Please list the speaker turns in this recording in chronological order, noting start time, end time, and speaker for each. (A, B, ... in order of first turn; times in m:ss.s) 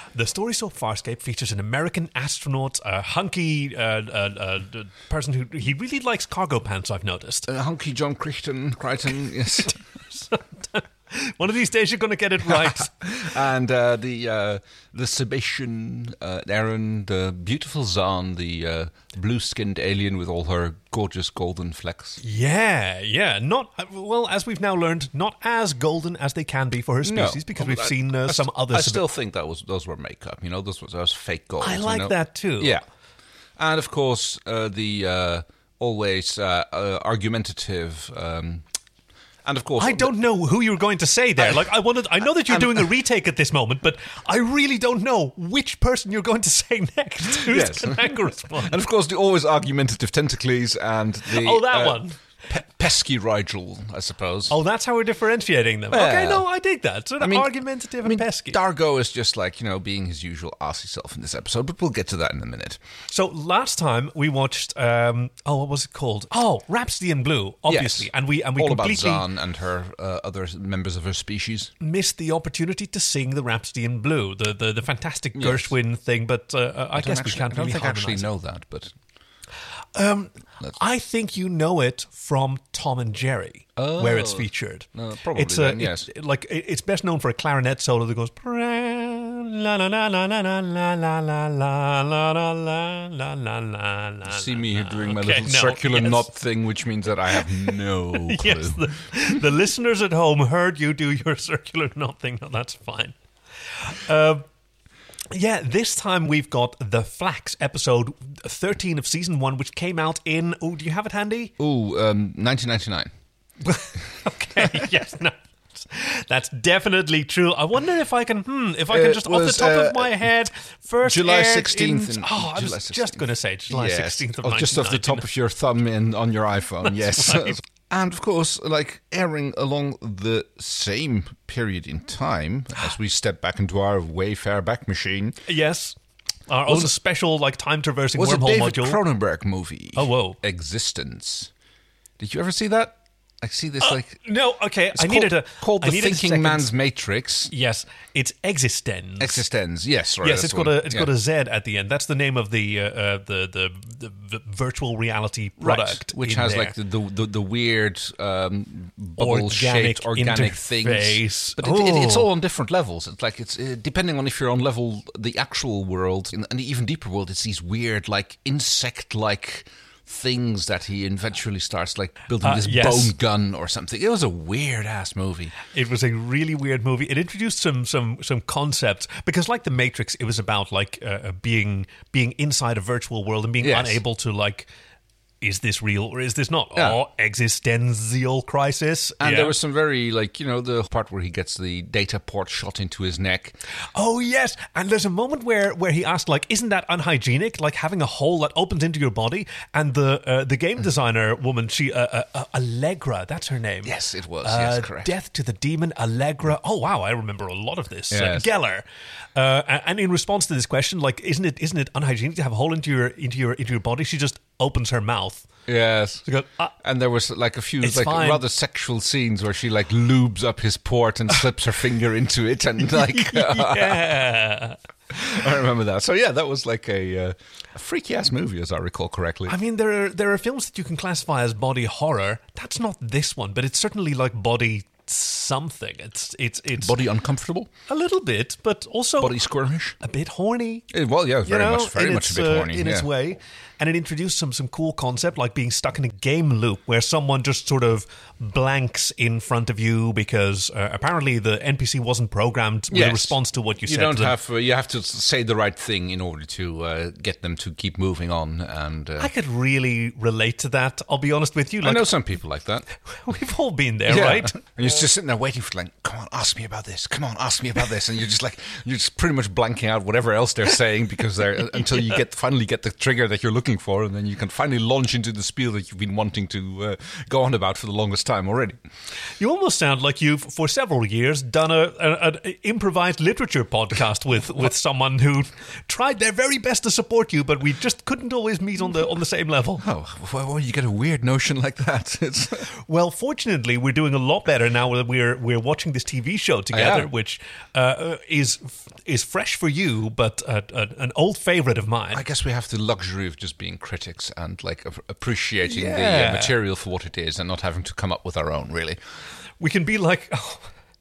0:00.1-0:07.5 A
0:07.5-0:09.8 B
0:09.7-0:12.9 A
0:12.4-0:22.2 B
0:22.2-0:29.0 A
0:27.0-0:32.8 B
0:31.6-0:32.8 A
0:33.6-0:38.6 B
0:39.4-0:40.2 B
0:39.8-0:48.8 A
0:41.4-0:41.7 B
0:42.2-0:42.9 B
0:47.4-0:54.5 B
0:51.3-0:52.2 A
0:54.5-0:58.6 A
0:55.9-0:56.4 B
0:57.2-1:02.8 B
1:03.1-1:09.2 A
1:07.7-1:11.7 B
1:11.8-1:18.3 A
1:15.3-1:15.7 B
1:16.9-1:18.9 B
1:19.9-1:36.3 A
1:23.8-1:26.1 B
1:34.2-1:39.3 B
1:38.1-1:43.1 A
1:43.7-1:44.4 A
1:45.3-1:51.5 A
1:51.6-1:53.1 B
1:53.6-2:05.3 A
1:58.9-2:00.2 B
2:01.0-2:15.4 B
2:06.8-2:07.6 A
2:15.5-2:16.0 A
2:16.5-2:19.0 A
2:16.7-2:16.9 B
2:18.1-2:21.5 B
2:20.0-2:20.4 A
2:22.2-2:24.2 B
2:23.8-2:26.7 A
2:24.9-2:27.5 B
2:27.5-2:29.4 A
2:29.2-2:31.1 B
2:30.2-2:36.7 A
2:35.6-2:55.5 B
2:39.2-2:42.3 A
2:52.4-2:53.1 A
2:55.6-3:04.7 A
3:03.6-3:04.0 B
3:05.4-3:09.5 A
3:09.2-3:13.6 B
3:14.0-3:28.8 A
3:23.8-3:25.1 B
3:28.1-3:28.5 B
3:29.4-3:35.5 A
3:35.7-3:36.2 B
3:36.3-3:36.7 A
3:36.8-3:44.1 B
3:37.8-3:38.4 A
3:43.0-3:44.8 A
3:45.1-3:49.6 B
3:49.5-3:56.9 A
3:56.8-3:57.7 B
3:57.9-3:59.4 A
3:59.2-4:00.0 B
4:00.0-4:00.9 A
4:00.9-4:03.1 B
4:01.4-4:14.3 A
4:12.9-4:19.3 B
4:19.2-4:22.1 A
4:21.8-4:22.8 B
4:23.1-4:24.6 A
4:24.1-4:38.8 B
4:39.4-4:49.8 A
4:49.8-4:52.7 B
4:52.8-5:02.2 A
4:56.7-4:57.1 B
5:02.1-5:09.0 B
5:05.7-5:06.5 A
5:09.6-5:10.7 A